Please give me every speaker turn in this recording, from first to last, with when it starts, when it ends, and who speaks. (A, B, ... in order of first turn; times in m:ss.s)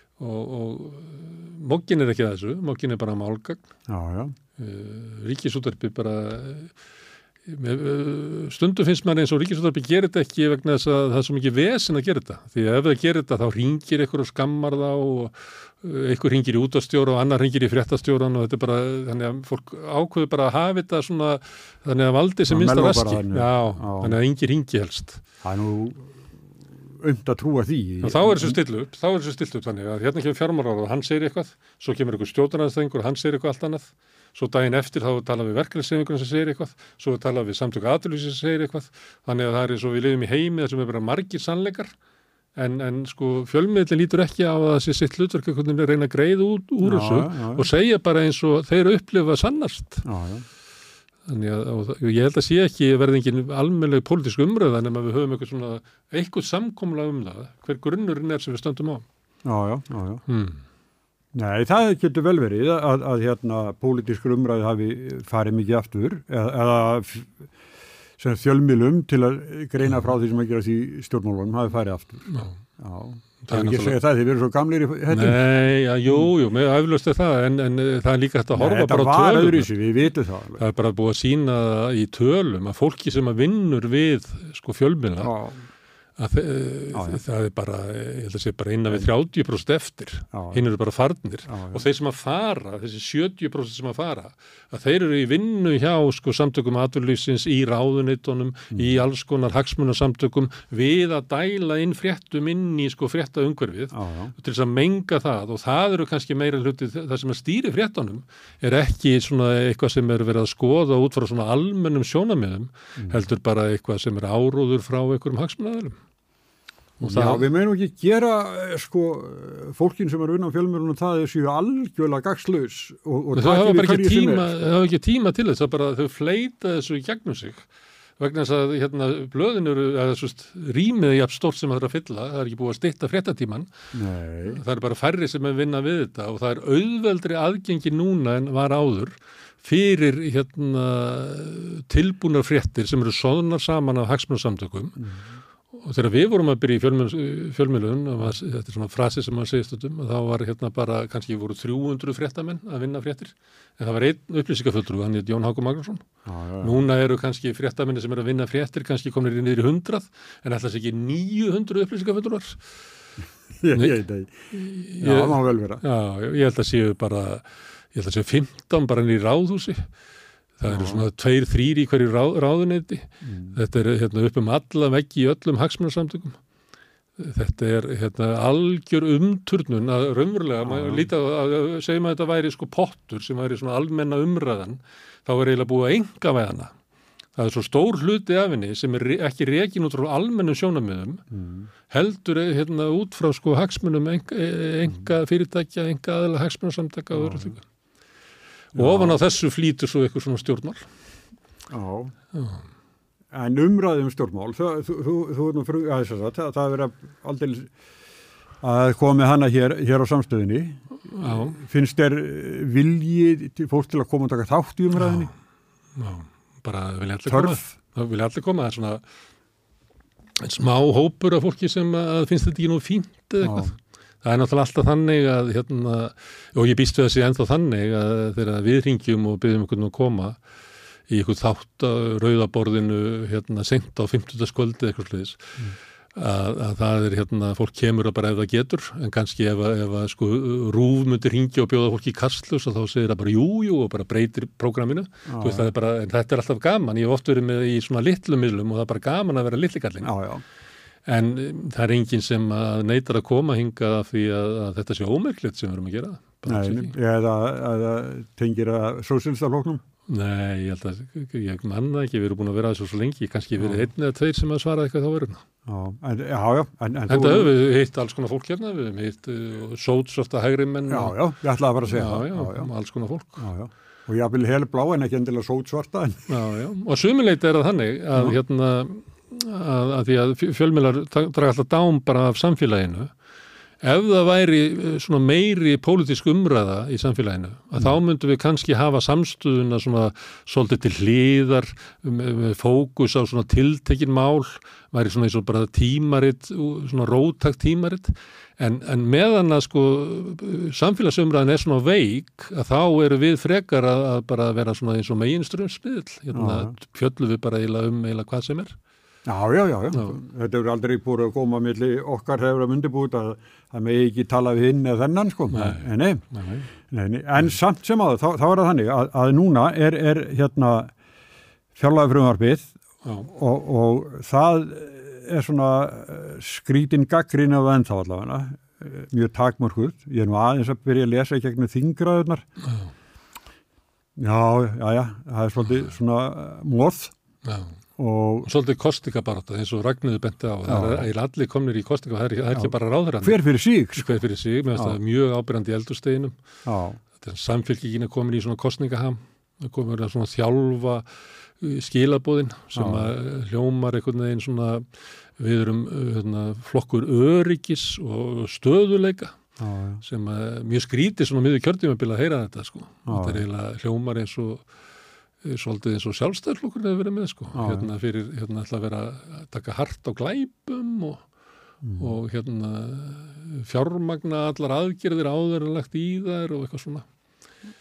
0:00.2-0:03.6 A
0:03.9-0:04.3 B
0:04.6-0:06.7 A
0:07.5-0:25.2 A
0:22.5-0:24.2 B
0:25.4-0:26.1 B
0:27.0-0:28.6 B
0:28.0-0:41.9 A
0:42.6-0:50.0 A
0:46.8-0:47.7 B
0:50.0-0:50.4 B
0:51.3-0:59.0 A
0:59.4-1:00.2 B
1:00.3-1:00.6 A
1:01.3-1:07.3 B
1:08.2-1:12.2 B
1:12.3-1:12.5 A
1:12.8-1:15.4 B
1:13.4-1:14.0 A
1:15.1-1:19.7 A
1:18.5-1:20.6 B
1:20.6-1:25.3 A
1:25.2-1:25.6 B
1:26.2-1:56.0 A
1:26.9-1:27.2 B
1:30.3-1:30.6 B
1:31.5-1:31.8 B
1:43.9-1:44.3 B
1:57.0-1:57.4 A
1:57.0-2:04.5 B
2:03.3-2:07.7 A
2:08.2-2:13.7 A
2:13.9-2:14.6 B
2:14.5-2:25.0 A
2:25.7-2:36.0 A
2:36.2-2:36.8 B
2:36.6-2:42.6 A
2:43.6-2:44.4 B
2:44.5-2:49.9 A
2:45.0-2:45.8 B
2:50.6-2:56.4 A
2:50.7-2:51.0 B
2:53.2-2:53.6 B
2:57.2-3:06.7 A
3:00.6-3:01.1 B
3:07.4-3:11.2 A
3:11.3-3:11.7 B
3:11.8-3:17.6 A
3:17.1-3:17.5 B
3:18.7-3:20.8 A
3:18.8-3:19.2 B
3:21.7-3:22.1 B
3:22.3-3:22.6 A
3:23.3-3:27.7 B
3:28.6-3:35.3 B
3:31.2-3:31.6 A
3:35.0-3:35.3 A
3:36.0-3:39.0 A
3:37.2-3:37.8 B
3:40.4-3:50.4 A
3:43.4-3:43.7 B
3:51.1-3:55.4 A
3:56.2-4:10.1 A
4:05.3-4:05.7 B
4:10.0-4:10.4 B
4:11.0-4:16.9 A
4:16.5-4:19.8 B
4:20.1-4:25.4 A
4:23.6-4:23.8 B
4:25.7-4:27.5 B
4:27.1-4:31.2 A
4:30.9-4:32.7 B
4:31.9-4:33.5 A
4:33.4-4:36.2 B
4:36.3-4:43.1 A
4:43.8-5:08.7 A
5:06.3-5:06.7 B
5:09.2-5:16.2 B
5:15.5-5:16.7 A
5:16.8-5:20.9 B
5:21.8-5:22.7 B
5:23.3-5:32.4 B
5:32.6-5:32.9 A
5:34.2-5:37.1 B
5:37.4-5:37.7 A
5:38.0-5:38.5 B
5:38.4-5:43.4 A
5:40.7-5:41.0 B
5:42.5-5:44.2 B
5:44.0-5:46.4 A
5:46.6-5:47.0 B
5:47.1-5:51.0 A
5:51.6-5:54.8 A
5:52.7-5:53.1 B
5:55.4-5:59.3 A
5:59.6-6:00.0 B
6:00.0-6:04.6 A
6:03.1-6:03.4 B
6:05.4-6:11.2 A
6:07.5-6:07.9 B
6:11.8-6:12.1 B
6:12.0-6:17.0 A